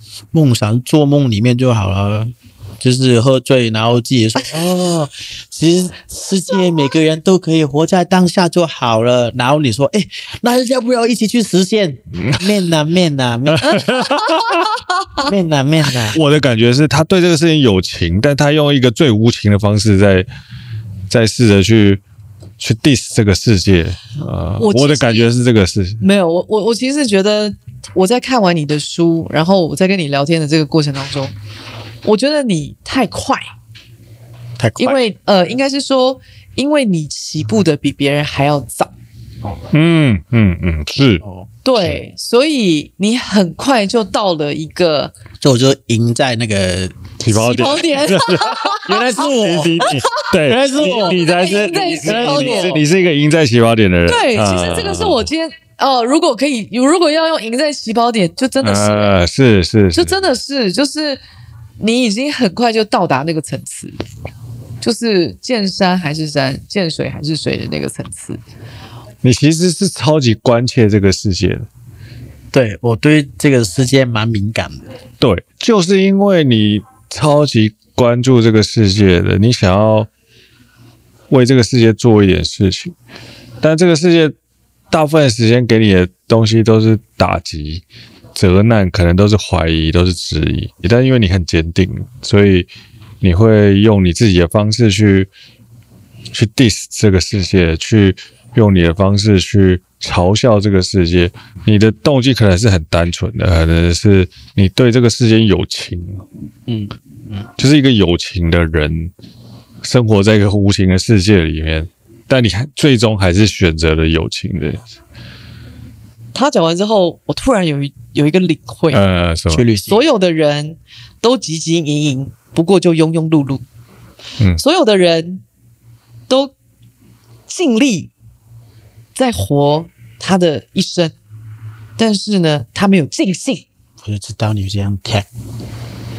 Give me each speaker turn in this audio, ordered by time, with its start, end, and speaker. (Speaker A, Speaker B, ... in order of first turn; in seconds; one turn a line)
Speaker A: 0.3-13.9
Speaker B: 12.2-12.5
Speaker B: 13.5-14.7
Speaker C: 13.7-15.3
Speaker A: 15.2-16.2
Speaker B: 16.1-20.3
Speaker B: 21.1-22.0
Speaker B: 22.6-26.0
Speaker C: 24.6-25.3
Speaker C: 26.0-31.3
Speaker C: 32.0-33.4
Speaker A: 34.6-35.0
Speaker C: 34.8-38.9
Speaker B: 39.7-41.2
Speaker A: 41.2-41.5
Speaker C: 41.6-45.1
Speaker A: 45.4-47.8
Speaker B: 47.3-55.2
Speaker C: 47.3-49.1
Speaker A: 48.7-52.8
Speaker C: 49.8-52.8
Speaker C: 54.1-59.1
Speaker B: 58.6-60.1
Speaker C: 59.9-61.2
Speaker C: 61.8-64.0
Speaker C: 64.8-68.4
Speaker B: 69.2-71.7
Speaker A: 72.5-74.9
Speaker B: 75.2-80.1
Speaker B: 81.3-82.9
Speaker B: 83.6-84.3
Speaker B: 84.9-87.8
Speaker B: 88.3-92.7
Speaker B: 93.2-95.3
Speaker B: 96.3-106.2
Speaker A: 106.7-107.5
Speaker B: 107.6-109.1
Speaker B: 109.8-114.8
Speaker C: 116.3-119.0
Speaker B: 118.9-119.6
Speaker A: 119.5-120.0
Speaker C: 119.8-123.6
Speaker C: 124.6-125.4
Speaker C: 126.3-126.5
Speaker C: 127.5-128.1
Speaker C: 129.1-131.1
Speaker C: 132.0-133.7
Speaker A: 134.0-135.3